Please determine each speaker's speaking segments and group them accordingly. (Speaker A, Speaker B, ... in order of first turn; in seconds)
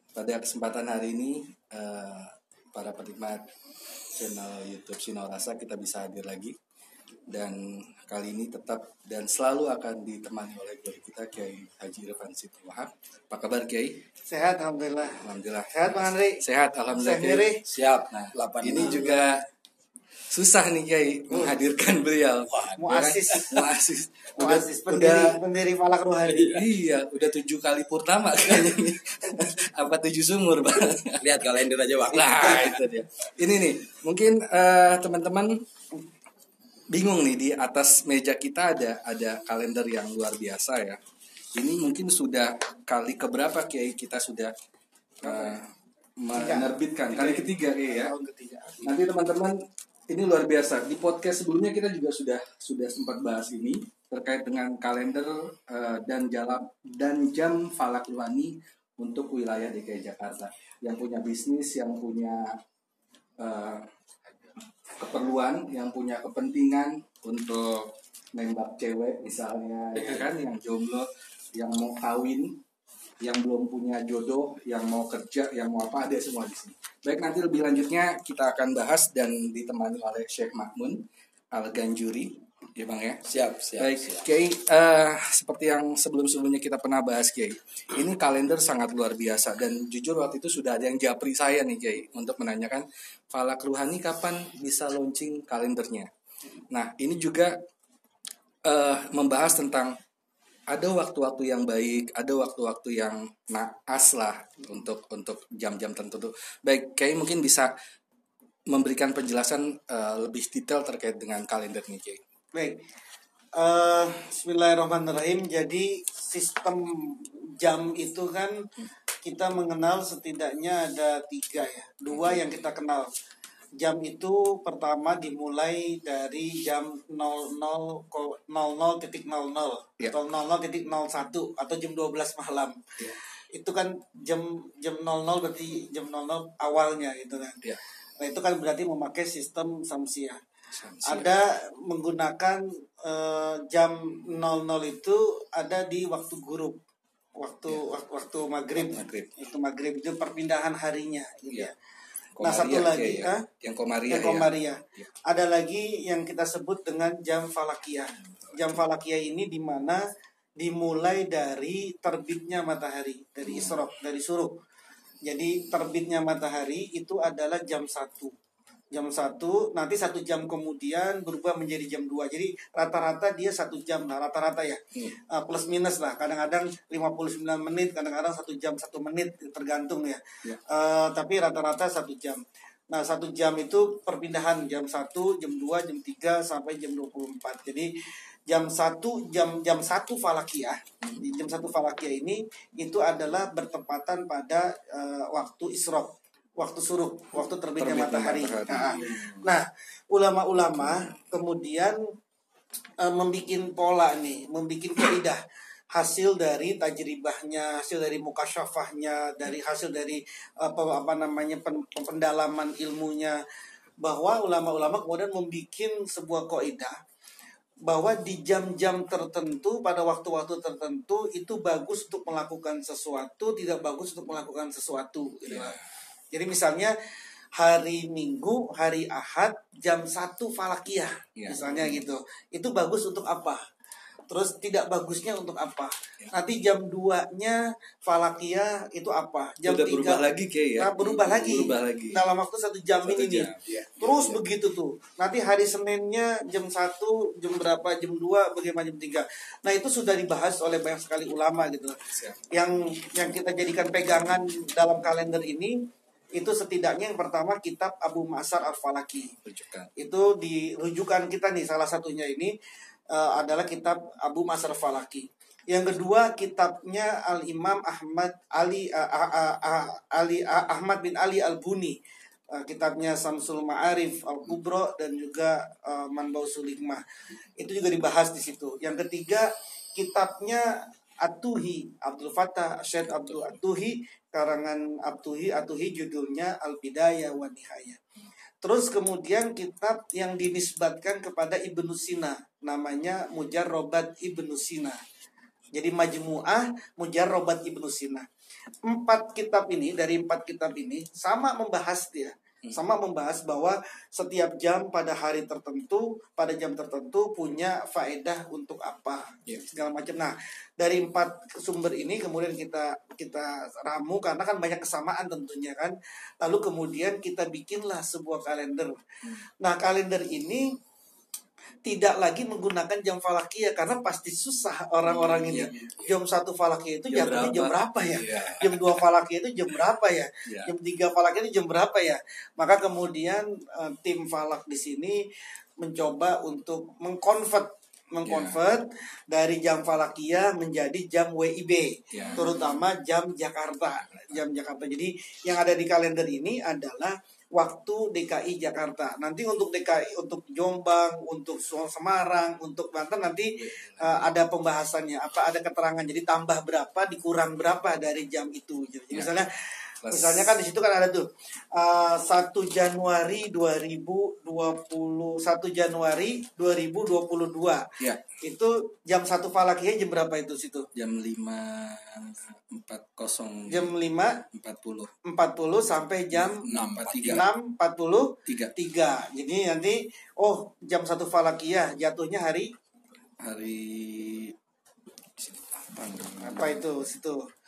Speaker A: 0.1-3.4, 4.2-6.5, 7.3-14.0, 15.2-19.4, 20.3-25.4, 26.5-31.2, 32.1-35.6, 36.9-41.0, 41.5-44.5, 45.2-48.1, 48.8-49.5, 50.1-62.5, 63.4-63.9, 65.0-72.6, 73.2-83.2, 83.8-96.1, 96.7-97.5, 98.6-99.9, 100.7-107.7, 108.7-112.2, 122.1-122.4, 140.7-141.3, 148.8-149.4, 152.3-155.1, 158.4-158.8, 163.4-163.8, 197.8-199.4, 200.6-201.1, 225.4-225.8, 231.4-232.0, 239.6-242.2, 243.0-244.4, 252.1-252.4, 259.4-259.9, 283.1-283.6, 325.0-325.8, 327.1-329.0, 330.4-330.7, 338.2-338.6, 342.1-342.6, 344.0-344.4, 353.6-354.3, 360.0-360.6, 370.9-373.9, 374.5-375.1, 376.3-377.4, 378.5-378.7, 383.4-384.5, 385.4-386.8
Speaker B: 14.3-16.4, 16.9-17.6, 21.3-21.6, 22.8-23.6, 24.4-26.6, 45.2-45.6, 46.3-48.9, 113.5-118.6, 119.2-123.1, 123.8-132.8, 133.5-137.6, 138.2-140.4, 141.0-146.8, 147.4-151.7, 152.4-153.4, 154.1-160.0, 160.6-164.5, 165.2-168.3, 168.9-174.8, 175.3-182.4, 182.9-187.9, 188.5-202.0, 203.0-205.4, 205.9-213.4, 214.0-216.9, 217.8-225.8, 226.3-226.9, 227.6-233.6, 234.3-252.0, 252.5-255.8, 256.4-259.3, 260.0-262.5, 263.1-272.0, 272.5-277.0, 277.6-280.7, 281.2-288.0, 288.6-295.0, 295.7-298.3, 298.8-318.9, 319.6-320.8, 321.8-335.2, 335.8-367.9, 368.4-370.9, 373.7-374.4, 375.2-376.7, 377.2-382.7, 386.4-387.5
Speaker C: 17.7-19.4, 22.5-22.8, 26.2-26.7, 31.2-32.8, 83.2-84.2, 241.0-241.7, 325.7-326.1, 376.7-377.4